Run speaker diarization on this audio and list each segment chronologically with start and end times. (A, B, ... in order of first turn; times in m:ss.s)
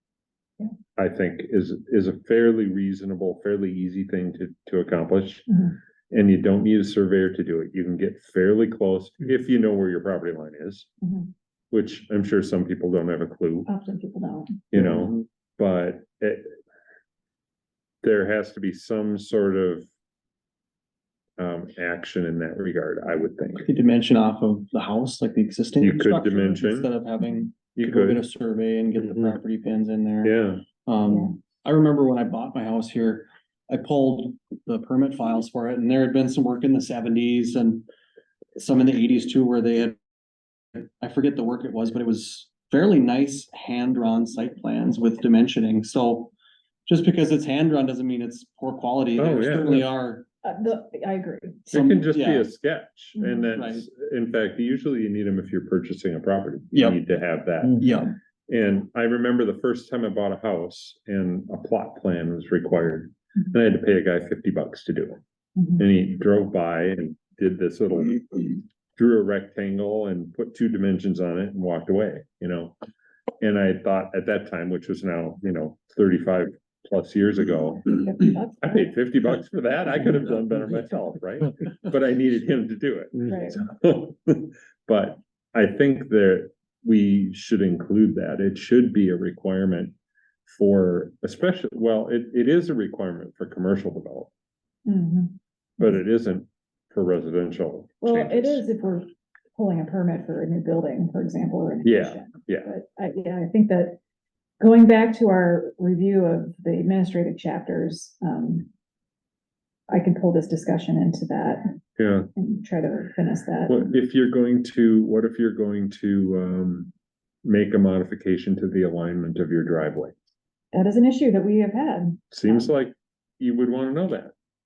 0:01.0-0:05.5 A
0:05.5-0:05.7 B
0:06.1-0:10.9 A
0:11.0-0:11.3 B
0:11.7-0:13.7 A
0:13.7-0:14.6 B
0:14.7-0:16.4 A
0:18.0-0:19.8 A
0:21.4-0:23.6 A
0:23.6-0:37.8 C
0:25.8-0:26.9 A
0:27.7-0:28.2 A
0:30.2-0:30.7 A
0:31.1-0:31.3 B
0:38.6-0:40.0 C
0:40.7-0:46.3 C
0:46.9-0:50.2 C
0:49.2-0:49.8 A
0:50.4-0:51.8 B
0:51.7-0:52.5 C
0:51.7-0:57.8 A
0:53.2-0:53.5 B
0:53.5-0:53.8 C
0:56.7-0:57.0 C
0:57.6-0:58.1 C
0:58.5-1:12.8 A
1:13.4-1:18.0 A
1:17.9-1:18.9 B
1:18.6-1:29.9 A
1:23.2-1:23.6 B
1:30.5-1:34.3 A
1:34.8-1:35.4 B
1:35.8-1:38.6 A
1:38.0-1:44.0 B
1:41.8-1:42.7 A
1:44.6-1:48.7 B
1:49.9-1:51.8 B
1:52.0-1:52.3 A
1:52.3-1:53.9 B
1:53.7-1:56.9 A
1:57.4-2:00.1 A
2:00.7-2:02.7 B
2:02.3-2:04.3 A